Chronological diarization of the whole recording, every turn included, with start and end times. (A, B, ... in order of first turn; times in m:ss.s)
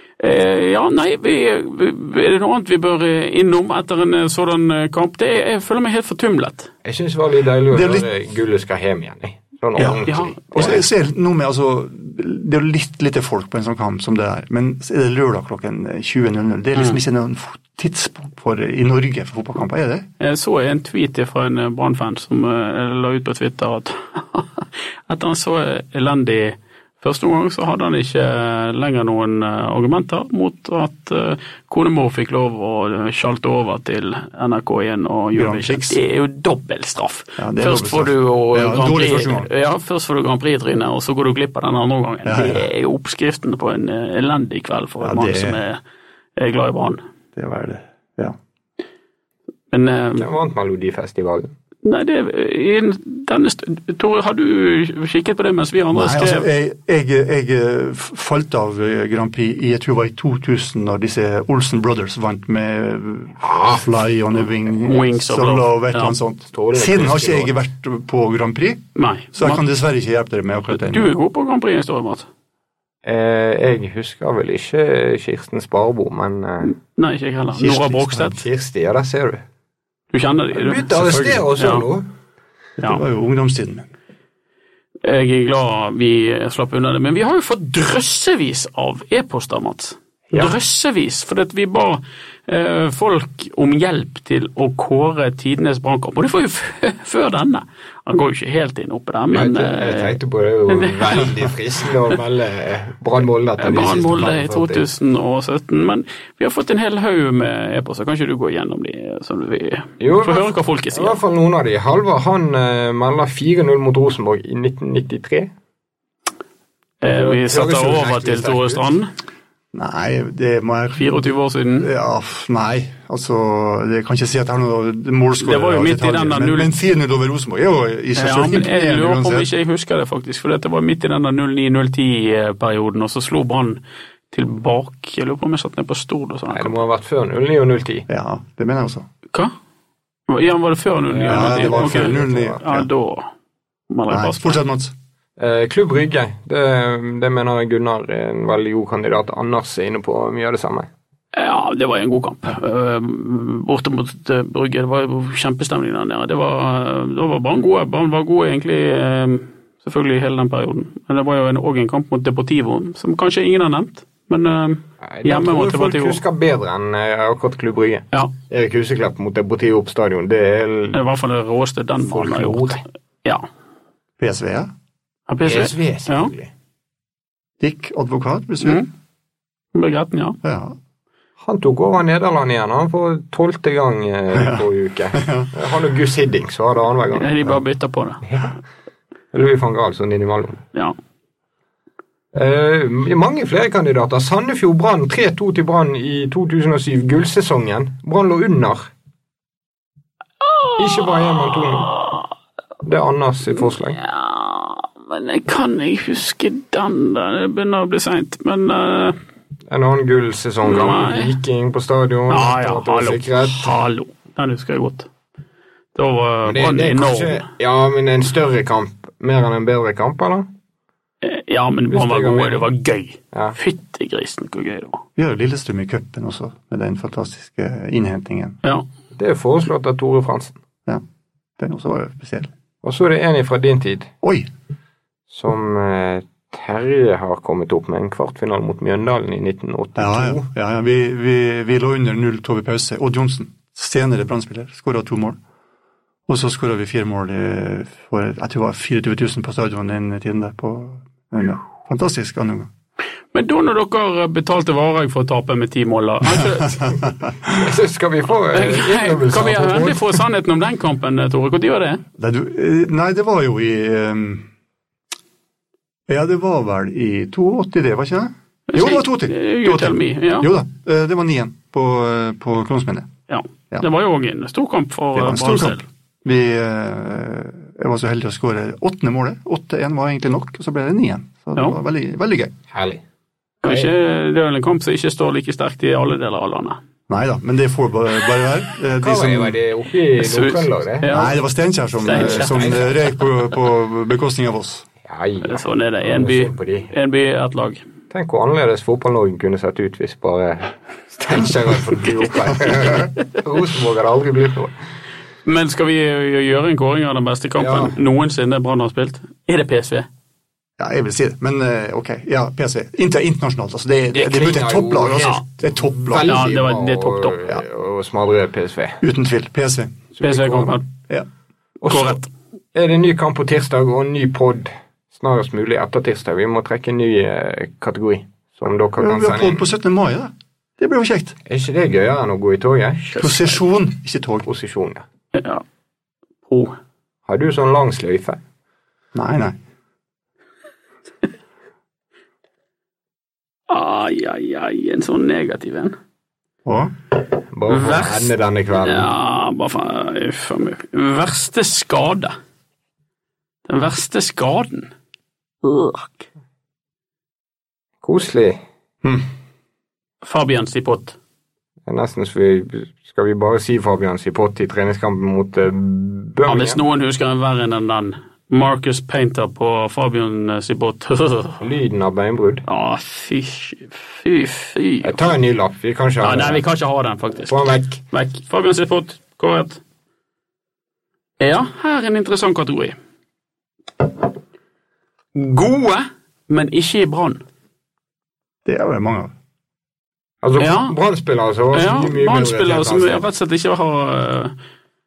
0:00.2-0:06.7 A
0:06.8-0:10.8 B
0:07.7-0:08.0 C
0:10.0-0:10.8 A
0:10.5-0:20.0 C
0:20.2-0:45.8 A
0:35.3-0:36.0 C
0:37.4-0:39.5 C
0:42.2-0:42.6 C
0:45.0-0:45.6 C
0:46.4-0:47.0 A
0:47.4-0:48.4 C
0:49.7-0:50.3 A
0:50.2-0:51.5 B
0:51.8-0:56.5 A
0:55.9-1:11.1 C
1:03.4-1:03.8 B
1:04.8-1:06.2 A
1:06.5-1:07.5 B
1:09.0-1:09.6 A
1:10.7-1:12.3 A
1:13.0-1:16.7 B
1:16.6-1:18.4 A
1:17.7-1:19.4 B
1:20.1-1:20.9 A
1:20.5-1:22.0 B
1:20.9-1:21.4 C
1:21.5-1:21.8 A
1:22.8-1:23.9 C
1:25.0-1:40.2 A
1:39.3-1:44.8 B
1:40.7-1:41.3 A
1:43.6-1:51.2 A
1:50.0-1:55.5 B
1:57.0-1:59.1 A
1:57.0-1:58.8 B
1:59.7-2:01.2 C
2:00.9-2:01.9 A
2:01.8-2:09.5 C
2:05.4-2:06.7 A
2:08.2-2:13.8 A
2:14.3-2:16.8 A
2:16.5-2:18.0 B
2:18.1-2:19.0 C
2:20.3-2:23.3 A
2:21.1-2:22.6 B
2:21.2-2:22.9 C
2:23.9-2:24.6 A
2:24.1-2:24.9 C
2:25.4-2:30.9 B
2:31.3-2:46.2 A
2:45.0-2:51.0 B
2:50.9-2:53.4 A
2:52.0-2:52.8 B
2:54.2-2:54.7 C
2:55.3-2:56.3 A
2:55.4-2:56.5 B
2:57.6-2:58.8 C
2:58.6-2:58.9 A
2:59.7-3:00.4 A
3:00.4-3:00.8 C
3:01.4-3:07.3 B
3:04.3-3:05.5 C
3:07.2-3:08.3 A
3:09.3-3:10.6 B
3:12.3-3:18.9 B
3:20.4-3:22.3 A
3:20.8-3:21.9 B
3:22.8-3:24.0 B
3:24.0-3:29.2 A
3:29.7-3:33.8 B
3:30.6-3:31.3 A
3:32.3-3:35.1 A
3:35.9-3:37.4 A
3:36.4-3:40.5 B
3:41.2-3:45.0 A
3:41.9-3:42.6 B
3:45.2-3:48.6 C
3:49.2-3:50.6 B
3:51.6-3:52.5 C
3:52.8-3:54.1 B
3:54.2-3:54.5 C
3:55.3-4:00.4 B
4:00.0-4:05.4 C
4:06.3-4:12.7 C
4:13.3-4:17.0 A
4:17.5-4:20.2 B
4:18.5-4:22.0 A
4:22.2-4:24.4 C
4:26.1-4:33.1 C
4:28.7-4:30.5 A
4:33.3-4:35.8 A
4:35.1-4:42.5 C
4:42.7-4:43.0 B
4:43.6-4:46.8 A
4:43.6-4:43.9 B
4:47.1-4:49.6 C
4:49.0-4:51.1 B
4:50.2-4:51.4 A
4:51.1-4:54.8 C
4:52.0-4:52.8 A
4:52.1-4:52.9 B
4:55.1-4:56.9 B
4:55.4-4:57.8 A
4:58.1-5:04.7 B
5:05.4-5:10.1 A
5:07.6-5:07.9 B
5:10.8-5:16.4 C
5:14.1-5:19.0 B
5:16.2-5:17.4 A
5:19.0-5:20.0 C
5:20.2-5:20.8 B
5:20.2-5:20.8 A
5:21.8-5:22.2 B
5:21.9-5:22.3 A
5:22.7-5:29.6 B
5:29.0-5:31.4 C
5:31.5-5:33.2 B
5:33.2-5:34.4 C
5:34.4-5:35.0 B
5:35.3-5:35.6 A
5:36.5-5:36.8 A
5:37.3-5:38.4 B
5:39.1-5:39.6 C
5:43.7-5:46.0 A
5:46.6-5:46.9 C
5:47.5-5:49.1 B
5:47.7-5:52.3 A
5:53.7-5:54.9 A
5:55.6-5:56.2 A
5:58.0-5:59.2 B
6:00.2-6:01.2 A
6:01.9-6:06.8 B
6:06.5-6:11.6 A
6:11.6-6:12.6 B
6:12.6-6:15.2 A
6:15.0-6:16.6 B
6:16.2-6:19.8 A
6:17.5-6:18.0 B
6:21.4-6:22.9 A
6:25.3-6:27.4 A
6:28.6-6:29.3 C
6:30.4-6:33.2 B
6:30.6-6:30.9 A
6:31.7-6:34.5 A